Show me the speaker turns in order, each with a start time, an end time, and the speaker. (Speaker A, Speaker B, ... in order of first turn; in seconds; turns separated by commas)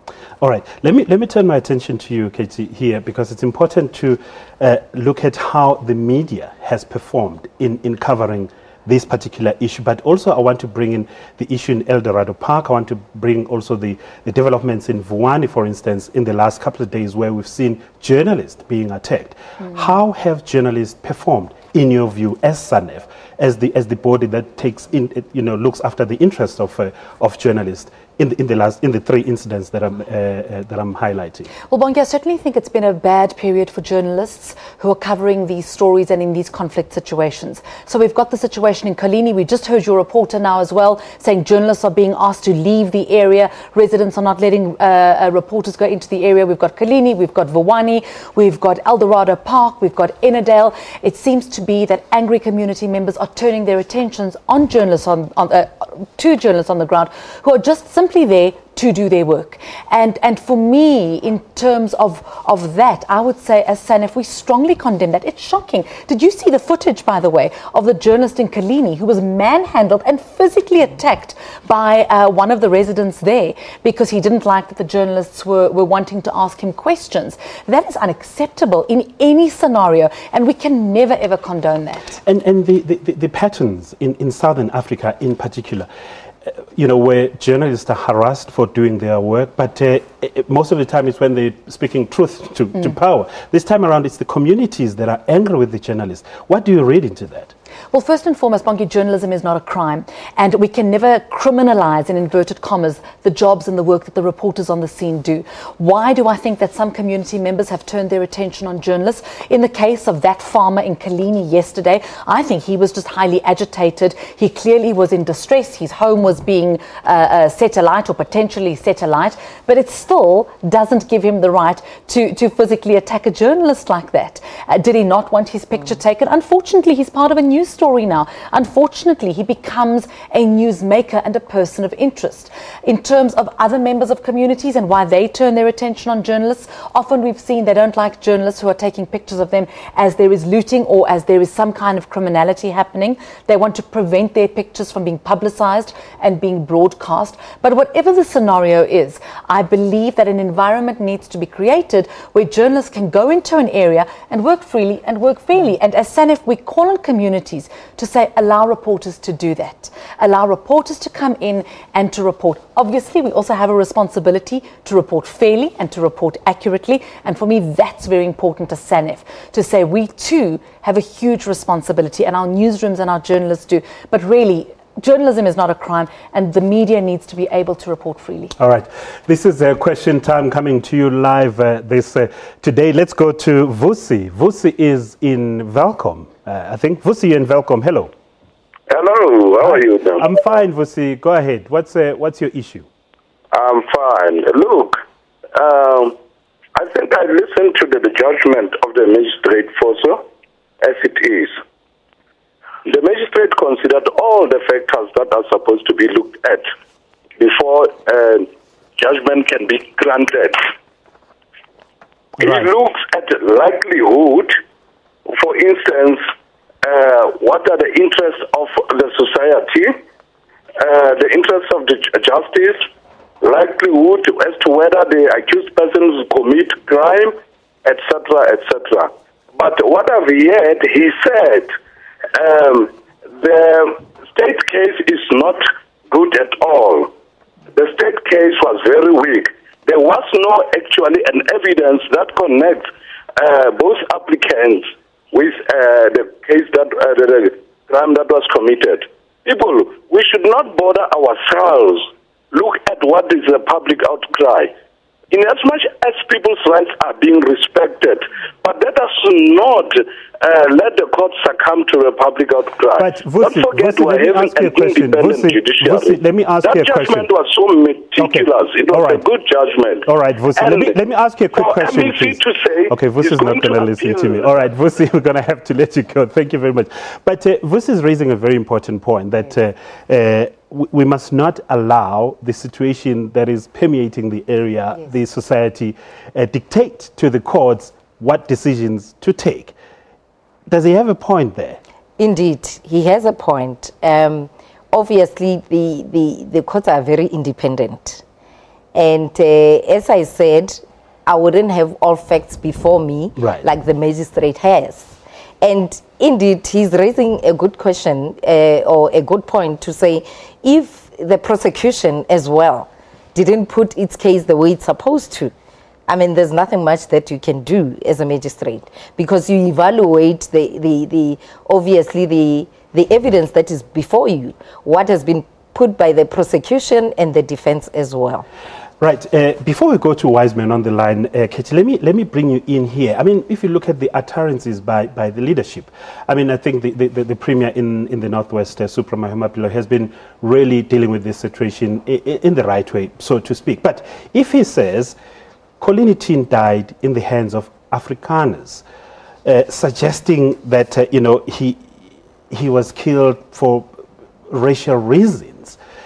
Speaker A: 0.4-31.5, Speaker B: 31.7-82.2, Speaker A: 82.2-85.9, Speaker A: 86.5-97.5, Speaker B: 97.9-178.5, Speaker A: 178.6-188.1, Speaker C: 188.9-190.3, Speaker A: 189.6-192.8, Speaker C: 193.5-195.0, Speaker C: 195.5-196.2, Speaker C: 196.7-200.2, Speaker C: 200.8-201.6, Speaker C: 202.8-206.7, Speaker C: 207.4-210.7, Speaker A: 212.4-212.7, Speaker C: 212.4-214.6, Speaker C: 215.3-216.2, Speaker C: 216.8-220.0, Speaker C: 220.8-222.8, Speaker C: 223.4-231.7, Speaker C: 232.3-237.1, Speaker C: 237.7-254.7, Speaker C: 255.3-270.9, Speaker A: 263.0-267.3, Speaker A: 268.2-269.2, Speaker A: 270.1-289.7, Speaker C: 271.5-274.5, Speaker A: 290.7-291.8, Speaker D: 292.2-298.2, Speaker D: 298.9-315.5, Speaker A: 303.4-303.6, Speaker D: 316.1-328.4, Speaker A: 329.0-345.1, Speaker A: 345.8-348.8, Speaker A: 349.4-351.9, Speaker A: 352.5-353.9, Speaker A: 354.5-355.8